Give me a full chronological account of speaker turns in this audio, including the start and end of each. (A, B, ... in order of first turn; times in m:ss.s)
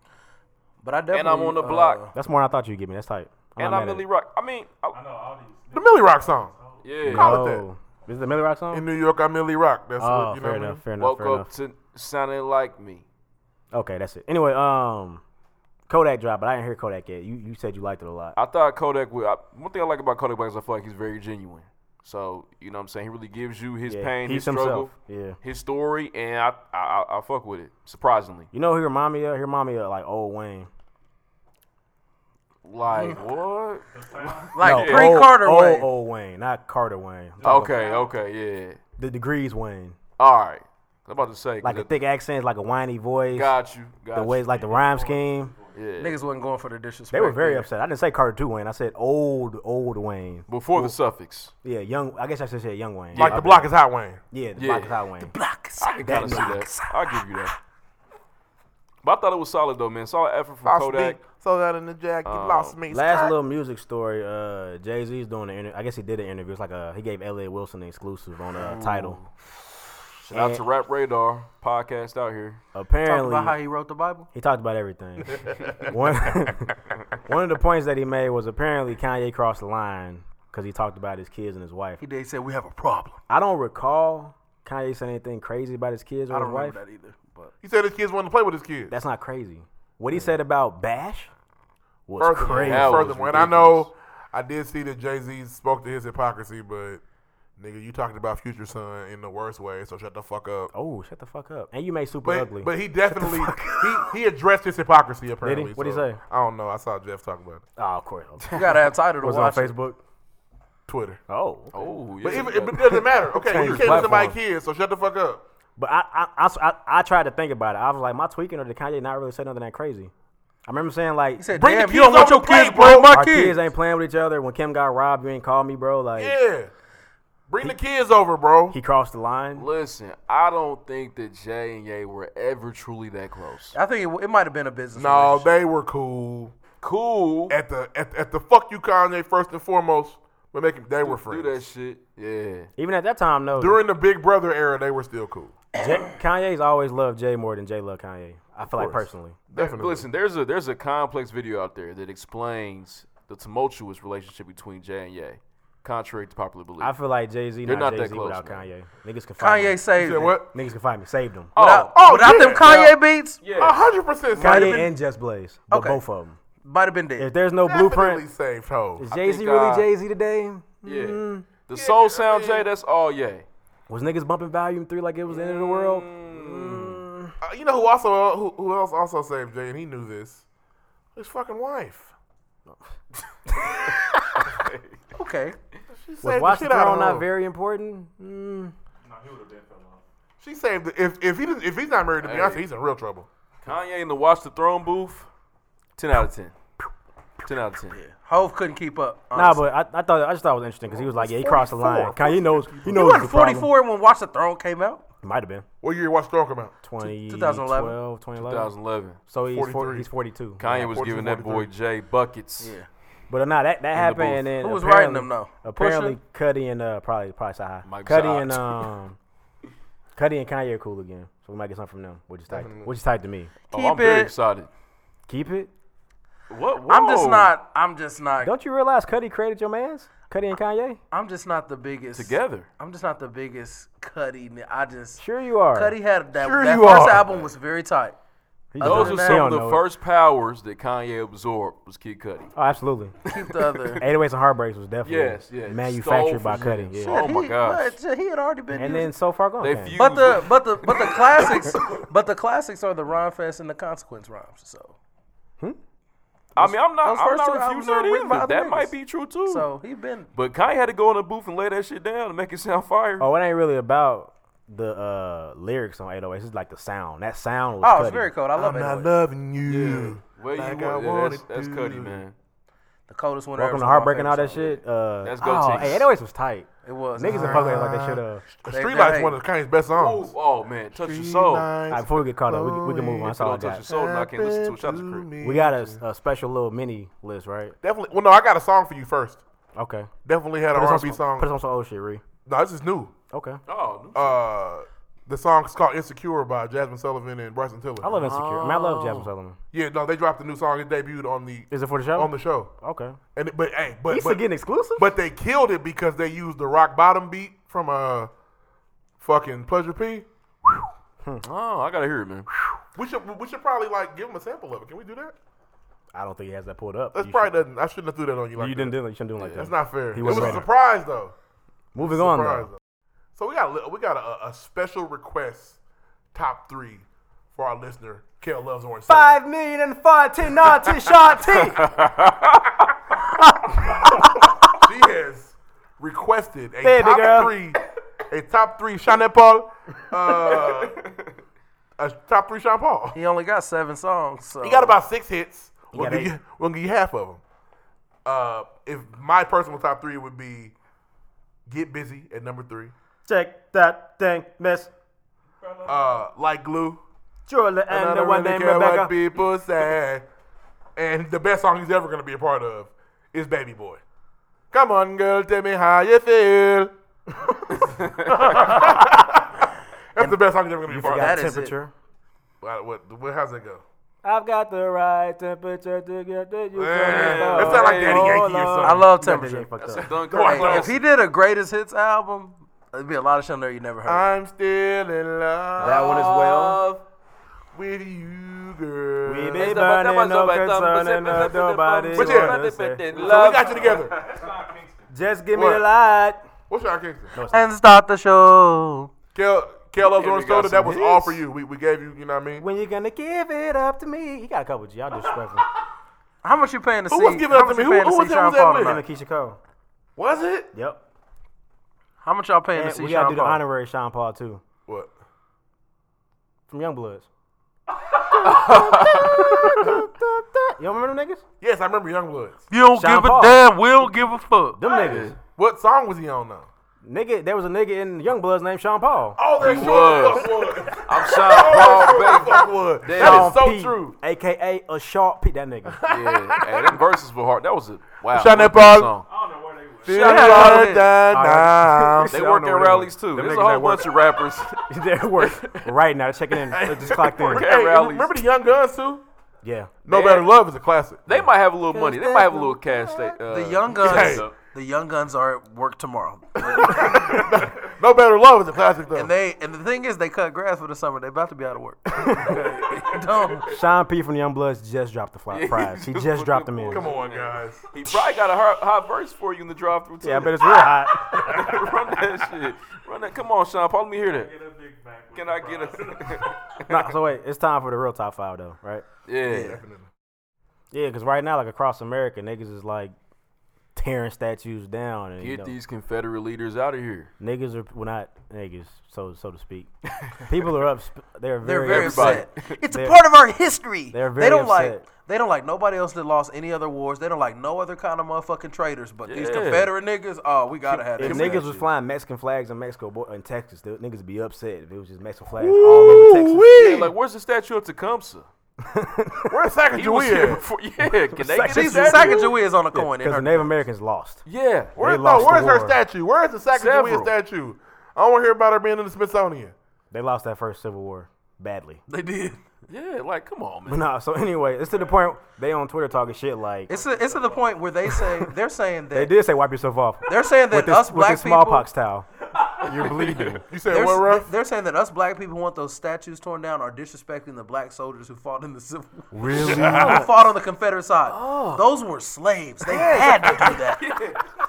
0:00.8-0:02.1 A
0:01.1-0:02.0 B
0:02.1-0:04.1 C
0:03.6-0:05.0 B
0:04.9-0:06.9 D
0:05.7-0:07.6 E
0:06.8-0:07.5 B
0:07.0-0:08.9 C
0:08.7-0:10.8 E
0:10.0-0:11.5 C
0:11.0-0:13.0 B
0:13.7-0:15.2 C
0:15.9-0:18.4 C
0:18.3-0:28.5 B
0:23.9-0:25.4 C
0:28.5-0:30.7 C
0:32.6-0:33.8 B
0:33.9-0:34.6 D
0:34.5-0:35.9 A
0:34.6-0:35.2 B
0:34.6-0:37.7 C
0:37.4-0:38.2 D
0:37.4-0:38.8 B
0:39.0-0:40.0 C
0:40.2-0:41.9 B
0:41.6-0:43.6 C
0:43.3-0:44.4 B
0:44.1-0:45.5 C
0:44.5-0:45.8 D
0:45.7-0:46.2 B
0:46.0-0:47.7 A
0:47.1-0:51.0 C
0:50.5-0:51.5 B
0:51.6-0:53.7 C
0:53.1-0:53.4 B
0:53.1-0:54.2 E
0:54.3-0:55.3 C
0:54.6-0:55.0 B
0:55.2-0:56.7 A
0:55.8-0:57.5 B
0:56.0-0:56.8 C
0:59.0-1:01.2 B
1:00.6-1:03.3 E
1:02.2-1:02.8 B
1:02.9-1:09.2 C
1:08.6-1:09.3 B
1:10.3-1:12.6 B
1:10.3-1:10.6 C
1:12.7-1:13.6 C
1:13.0-1:14.3 A
1:14.3-1:22.0 C
1:22.0-1:23.2 A
1:23.3-1:26.8 C
1:26.3-1:27.5 A
1:27.6-1:28.9 E
1:28.9-1:31.3 C
1:32.1-1:33.1 C
1:32.2-1:37.0 E
1:32.5-1:33.9 B
1:37.6-1:40.7 E
1:40.7-1:44.1 C
1:42.2-1:47.6 E
1:45.4-1:46.2 C
1:47.8-1:48.6 C
1:48.5-1:49.8 A
1:49.2-1:50.0 C
1:50.9-1:51.2 E
1:51.3-1:51.7 C
1:51.7-1:54.2 B
1:52.2-1:55.4 E
1:52.9-1:54.4 C
1:55.8-2:00.1 C
2:00.6-2:01.4 C
2:01.4-2:03.6 A
2:01.6-2:03.1 E
2:03.1-2:06.4 C
2:06.2-2:06.7 E
2:07.5-2:08.8 E
2:08.7-2:09.7 C
2:09.6-2:13.8 B
2:13.7-2:15.6 A
2:15.0-2:16.5 E
2:16.8-2:17.6 B
2:17.5-2:21.6 E
2:21.0-2:22.7 B
2:22.8-2:23.8 C
2:23.6-2:25.6 E
2:25.7-2:29.4 C
2:28.6-2:30.1 E
2:29.5-2:37.0 B
2:36.8-2:39.8 C
2:37.6-2:38.7 B
2:39.4-2:40.4 A
2:40.0-2:40.5 E
2:40.5-2:41.5 C
2:41.6-2:43.9 B
2:41.6-2:43.4 A
2:42.0-2:42.7 E
2:43.6-2:44.9 E
2:44.4-2:44.8 A
2:44.4-2:46.4 C
2:45.7-2:46.0 A
2:46.6-2:47.3 A
2:47.2-2:48.2 C
2:47.6-2:49.0 E
2:49.0-2:51.5 C
2:49.1-2:49.9 B
2:50.8-2:53.4 B
2:51.7-2:52.7 E
2:53.9-2:57.4 C
2:55.3-2:57.0 B
2:57.4-3:00.4 E
3:01.2-3:02.1 E
3:03.5-3:04.0 C
3:04.5-3:04.9 B
3:05.1-3:05.6 A
3:06.0-3:07.3 E
3:06.2-3:08.7 C
3:09.0-3:10.0 D
3:10.4-3:13.3 E
3:12.2-3:12.6 B
3:13.6-3:15.3 B
3:16.0-3:16.5 B
3:17.4-3:18.0 B
3:17.9-3:19.6 A
3:19.3-3:23.7 C
3:20.9-3:23.2 E
3:22.9-3:25.0 A
3:25.2-3:25.6 C
3:25.8-3:26.7 E
3:26.8-3:28.7 C
3:27.0-3:28.0 A
3:28.4-3:29.2 B
3:29.3-3:30.7 C
3:29.4-3:30.1 E
3:30.6-3:32.7 B
3:30.6-3:31.7 E
3:32.6-3:32.9 A
3:33.3-3:39.2 C
3:34.0-3:34.4 B
3:34.6-3:36.2 A
3:37.8-3:38.9 B
3:40.2-3:43.5 C
3:42.5-3:42.9 E
3:43.7-3:44.3 A
3:43.7-3:44.7 B
3:45.3-3:45.7 C
3:46.5-3:47.5 B
3:46.8-3:48.5 A
3:48.4-3:51.0 C
3:51.1-3:58.2 A
3:52.2-3:52.7 B
3:55.2-3:56.0 C
3:56.4-3:57.4 E
3:58.7-3:59.9 C
3:58.8-3:59.5 A
3:58.8-4:02.5 B
4:02.6-4:03.1 C
4:03.3-4:04.0 A
4:04.0-4:07.2 C
4:05.0-4:08.0 B
4:07.0-4:09.1 A
4:08.7-4:10.0 C
4:09.6-4:11.2 B
4:10.0-4:15.0 A
4:16.6-4:19.7 B
4:16.6-4:18.9 A
4:19.5-4:20.3 A
4:20.3-4:23.3 B
4:23.2-4:28.3 C
4:27.8-4:29.1 A
4:28.6-4:32.2 E
4:29.6-4:32.3 B
4:33.1-4:34.8 A
4:33.6-4:38.4 C
4:35.2-4:36.1 B
4:36.8-4:37.7 A
4:37.3-4:40.3 E
4:38.7-4:39.4 A
4:39.9-4:41.7 B
4:40.9-4:46.0 E
4:41.9-4:43.8 C
4:43.4-4:45.3 B
4:45.4-4:47.7 C
4:47.8-4:49.4 E
4:49.8-4:50.1 C
4:50.2-4:51.5 E
4:50.7-4:52.2 C
4:52.4-4:53.1 E
4:53.3-4:53.6 C
4:53.7-4:54.4 B
4:54.1-4:58.1 E
4:58.0-4:59.6 C
4:58.1-4:59.3 B
4:59.7-5:02.7 E
5:01.7-5:03.2 C
5:03.3-5:04.4 E
5:04.1-5:05.1 C
5:05.0-5:08.3 E
5:09.2-5:10.9 E
5:11.4-5:12.5 B
5:13.0-5:15.3 E
5:16.1-5:17.6 C
5:17.1-5:19.0 E
5:18.6-5:20.7 C
5:19.4-5:19.6 B
5:19.5-5:21.3 E
5:20.2-5:20.6 B
5:21.9-5:22.7 C
5:22.0-5:22.8 E
5:23.4-5:25.8 E
5:26.3-5:29.4 E
5:29.1-5:31.9 C
5:31.8-5:32.7 B
5:33.3-5:34.7 C
5:34.8-5:41.0 E
5:36.8-5:37.5 C
5:42.0-5:43.2 E
5:43.1-5:45.0 A
5:44.6-5:47.4 E
5:45.9-5:46.3 C
5:48.2-5:50.7 E
5:51.7-5:52.9 E
5:53.3-5:54.9 C
5:55.9-5:57.0 E
5:57.5-5:59.2 C
5:57.9-6:00.2 E
6:01.0-6:04.0 E
6:04.7-6:06.9 E
6:08.2-6:09.6 E
6:10.1-6:11.5 E
6:10.9-6:11.9 C
6:11.0-6:11.8 A
6:12.6-6:13.8 E
6:14.2-6:20.2 C
6:16.8-6:19.1 E
6:17.1-6:18.4 B
6:18.8-6:19.7 A
6:19.8-6:21.0 B
6:20.3-6:21.0 E
6:20.3-6:24.3 A
6:24.0-6:26.3 E
6:25.8-6:26.8 C
6:25.8-6:27.0 B
6:27.7-6:29.9 E
6:29.2-6:33.0 C
6:29.6-6:34.0 B
6:32.1-6:34.2 E
6:33.2-6:35.1 D
6:35.1-6:36.4 C
6:35.5-6:35.9 E
6:36.7-6:37.3 E
6:37.3-6:37.7 C
6:37.5-6:39.1 A
6:39.3-6:42.6 E
6:40.0-6:41.2 B
6:41.0-6:41.4 C
6:42.6-6:45.6 C
6:46.4-6:49.0 A
6:47.1-6:49.0 E
6:48.8-6:49.6 C
6:50.2-6:50.7 E
6:50.7-6:51.0 C
6:52.2-6:53.6 A
6:52.7-6:54.6 C
6:56.7-6:57.3 C
6:58.2-7:01.4 C
6:58.4-6:59.5 B
7:01.6-7:02.6 E
7:02.7-7:04.8 A
7:02.9-7:03.7 C
7:04.8-7:05.4 C
7:04.9-7:05.4 B
7:05.6-7:06.7 E
7:07.0-7:09.4 C
7:09.4-7:14.1 E
7:09.6-7:13.6 B
7:13.1-7:16.0 C
7:16.0-7:17.0 E
7:16.1-7:19.3 B
7:18.3-7:19.1 E
7:19.2-7:20.4 D
7:20.0-7:22.3 E
7:20.1-7:20.8 B
7:20.1-7:21.1 A
7:21.3-7:23.7 C
7:22.3-7:25.9 B
7:23.4-7:24.0 E
7:24.9-7:27.7 C
7:26.7-7:29.2 E
7:27.1-7:28.4 B
7:29.6-7:29.9 C
7:30.0-7:31.2 E
7:30.1-7:30.5 B
7:31.3-7:34.5 B
7:31.3-7:33.4 C
7:33.5-7:37.2 A
7:34.0-7:34.5 E
7:36.6-7:39.3 E
7:39.1-7:43.7 A
7:42.1-7:42.8 C
7:43.7-7:47.1 C
7:45.5-7:54.5 B
7:46.9-7:47.8 E
7:50.2-7:51.8 C
7:54.2-7:56.6 D
7:55.3-7:57.0 B
7:56.9-7:59.0 C
7:59.3-7:59.8 B
7:59.4-7:59.8 A
7:59.6-8:00.1 E
8:00.9-8:03.1 C
8:04.0-8:05.7 C
8:05.4-8:07.3 B
8:07.4-8:13.2 C
8:11.6-8:21.8 A
8:11.9-8:12.7 B
8:14.1-8:15.1 C
8:19.3-8:19.9 B
8:21.2-8:27.0 C
8:25.5-8:27.1 E
8:26.7-8:28.5 B
8:28.8-8:29.6 C
8:29.5-8:30.6 E
8:29.9-8:32.6 B
8:31.3-8:34.4 C
8:31.7-8:33.8 A
8:34.4-8:35.0 B
8:35.0-8:36.0 C
8:35.0-8:39.7 E
8:36.7-8:37.3 B
8:40.1-8:42.0 C
8:42.1-8:42.6 A
8:42.9-8:44.0 B
8:43.9-8:46.9 C
8:46.9-8:47.7 D
8:46.9-8:49.3 A
8:49.1-8:52.3 C
8:50.3-8:51.9 A
8:52.8-8:53.6 C
8:53.0-8:53.6 B
8:53.7-8:54.5 E
8:53.9-9:04.0 A
8:59.3-9:00.3 C
8:59.5-9:00.2 E
9:01.3-9:01.8 B
9:02.9-9:04.4 B